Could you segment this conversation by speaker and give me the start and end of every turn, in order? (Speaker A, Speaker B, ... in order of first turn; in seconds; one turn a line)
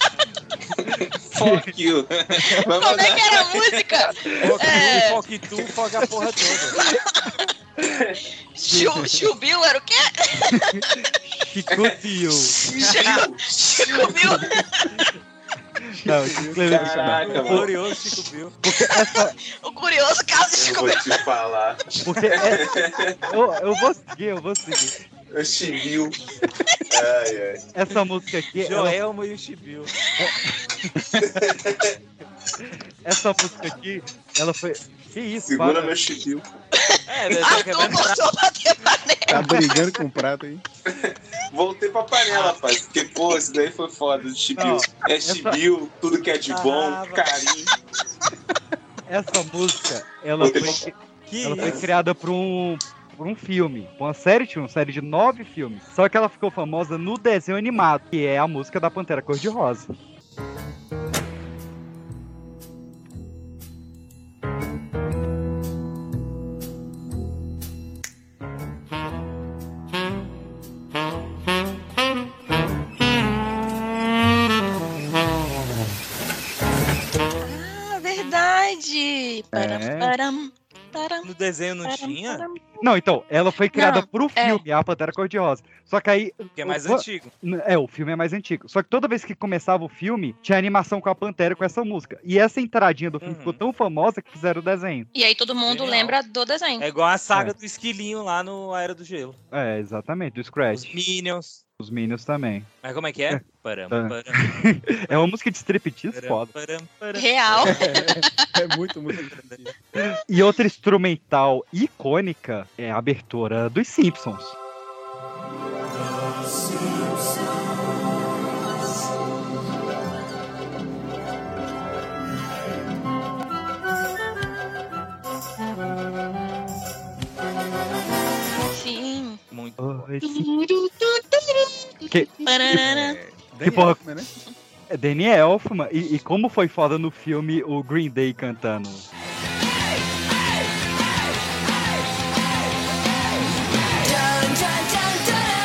Speaker A: 0.7-4.3
Speaker B: 1.3-1.7
Speaker C: 2.8-5.2
Speaker D: 4.4-6.8
Speaker C: 6.8-7.4
Speaker A: 7.8-8.2
Speaker C: 8.6-10.8
Speaker B: 8.7-9.1
Speaker B: 10.5-12.6
Speaker C: 12.6-15.1
Speaker A: 12.7-14.6
Speaker B: 15.9-17.7
Speaker E: 15.9-17.6
Speaker A: 16.7-17.7
Speaker D: 17.4-18.6
Speaker B: 18.6-19.4
Speaker C: 18.8-21.2
Speaker A: 20.6-23.2
Speaker B: 22.0-25.0
Speaker A: 25.3-26.2
Speaker A: 26.9-27.6
Speaker B: 27.8-29.0
Speaker D: 28.6-29.9
Speaker A: 31.2-31.9
Speaker B: 33.0-36.0
Speaker A: 35.5-36.4
Speaker C: 36.8-39.8
Speaker D: 37.1-38.2
Speaker E: 39.3-40.6
Speaker A: 40.9-47.7
Speaker B: 44.6-45.6
Speaker D: 46.5-47.3
Speaker B: 49.1-59.9
Speaker A: 50.4-50.9
Speaker D: 51.3-51.8
Speaker A: 51.6-51.8
Speaker C: 77.4-81.3
Speaker B: 79.5-80.1
Speaker D: 81.2-82.5
Speaker C: 81.8-82.8
Speaker B: 82.8-95.1
Speaker C: 83.7-84.6
Speaker D: 86.6-87.3
Speaker D: 93.2-93.6
Speaker C: 95.1-96.9
Speaker D: 95.7-96.2
Speaker D: 96.8-99.4
Speaker B: 99.5-101.0
Speaker D: 100.7-101.6
Speaker B: 101.8-102.7
Speaker D: 102.8-105.3
Speaker B: 103.3-106.5
Speaker D: 106.1-107.8
Speaker C: 107.2-108.3
Speaker E: 107.6-109.8
Speaker D: 109.3-109.6
Speaker B: 110.0-114.6
Speaker C: 128.7-129.4
Speaker D: 129.5-130.0
Speaker B: 129.8-130.5
Speaker C: 130.2-133.2
Speaker B: 132.1-132.8
Speaker E: 132.8-134.3
Speaker B: 133.6-134.0
Speaker B: 134.9-139.1